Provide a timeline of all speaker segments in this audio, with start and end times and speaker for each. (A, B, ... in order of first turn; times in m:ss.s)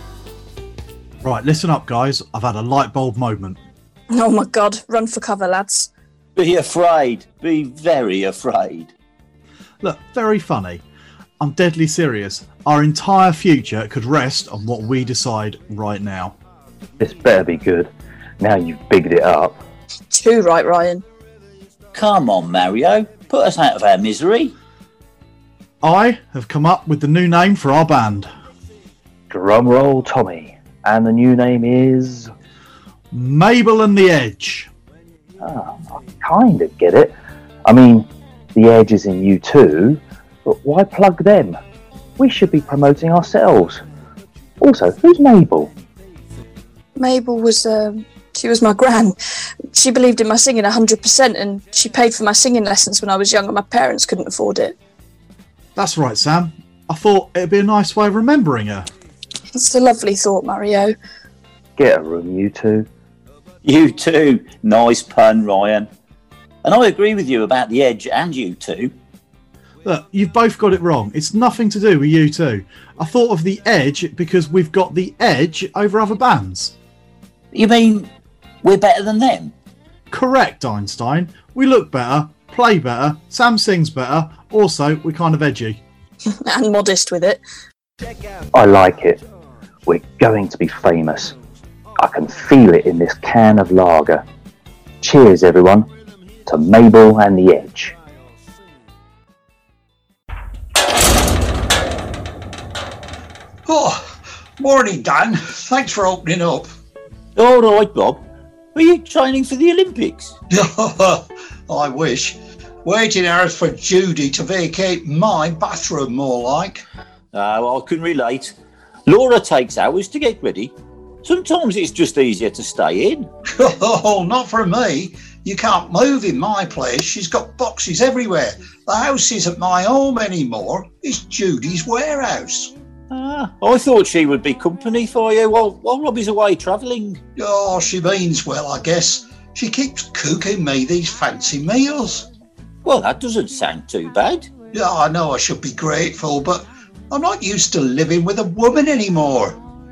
0:01.2-0:03.6 A
0:04.1-0:05.9 B
0:06.4-0:08.9 C
0:09.8-0:10.8 A
0:11.4-0:16.4 A
0:17.0-0:17.9 D
0:18.4-0:19.6 D
0:20.1-0:21.0 B
0:21.9-0:24.5 C
0:25.8-0:28.3 A
0:29.3-0:32.3 D
0:33.1-0:34.7 A
0:35.4-0:41.6 D
0:42.2-0:43.8 D
0:44.6-0:45.7 D
0:47.0-0:54.8 B
0:55.8-0:58.9 A
0:59.5-1:01.0 B
1:01.8-1:02.9 D
1:03.6-1:05.9 C
1:06.6-1:08.9 C
1:09.8-1:16.8 A
1:17.5-1:18.1 C
1:18.6-1:19.5 C
1:20.1-1:25.8 A
1:26.4-1:27.4 B
1:28.5-1:29.2 D
1:29.9-1:31.3 D
1:32.0-1:34.2 D
1:35.0-1:35.9 D
1:36.5-1:38.0 D
1:43.7-1:46.7 E
1:47.4-1:48.2 C
1:48.8-1:50.4 C
1:50.5-1:56.8 E
1:57.3-1:58.6 C
1:59.1-2:00.7 C
2:01.2-2:03.3 C
2:03.6-2:12.7 E
2:13.1-2:17.2 C
2:17.4-2:22.3 E
2:22.8-2:24.5 C
2:24.7-2:29.6 E